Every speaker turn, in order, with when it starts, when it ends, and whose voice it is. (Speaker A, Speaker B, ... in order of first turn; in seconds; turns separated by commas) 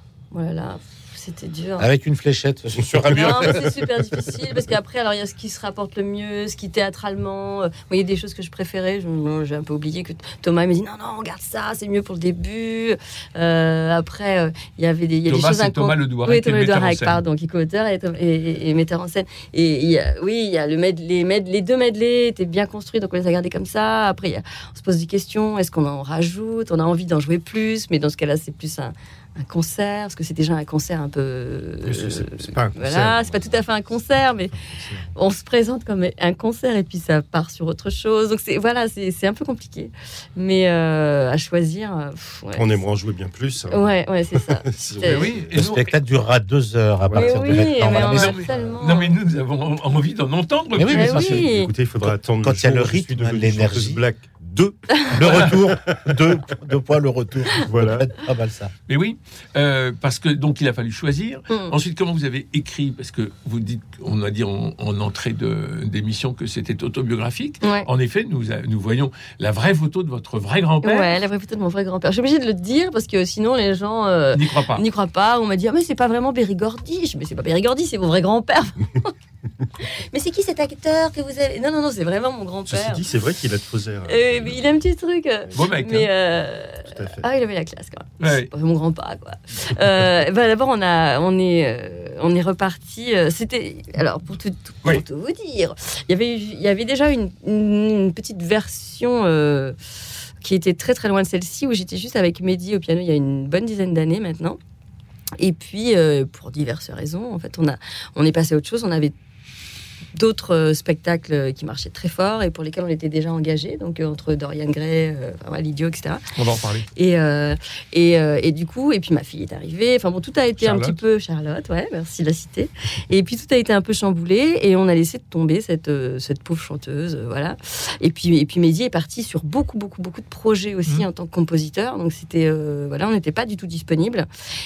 Speaker A: 0.3-1.9, Speaker B: 1.8-3.7, Speaker C: 2.8-3.8, Speaker A: 3.1-34.5, Speaker D: 15.2-17.2, Speaker C: 31.8-33.6, Speaker C: 34.5-35.1, Speaker A: 35.1-42.8, Speaker C: 42.5-45.6, Speaker A: 43.7-45.3, Speaker D: 45.0-45.9, Speaker B: 45.5-48.4, Speaker C: 47.0-47.9, Speaker A: 47.1-49.2, Speaker D: 48.0-51.4, Speaker C: 48.5-48.8, Speaker B: 50.7-51.5, Speaker A: 50.9-51.7, Speaker C: 51.1-56.2, Speaker B: 52.0-54.0, Speaker B: 55.1-58.7, Speaker C: 57.5-58.1, Speaker D: 58.9-71.1, Speaker A: 61.5-61.7, Speaker A: 67.6-67.9, Speaker A: 70.8-79.1, Speaker D: 74.3-74.8, Speaker A: 79.8-83.0, Speaker C: 82.7-84.6, Speaker A: 84.0-99.8, Speaker D: 85.5-86.1, Speaker C: 86.9-87.2, Speaker D: 88.2-88.5, Speaker A: 100.4-104.6, Speaker A: 105.4-109.1, Speaker A: 110.1-116.2, Speaker D: 116.3-116.9, Speaker A: 116.9-134.3, Speaker D: 120.6-121.0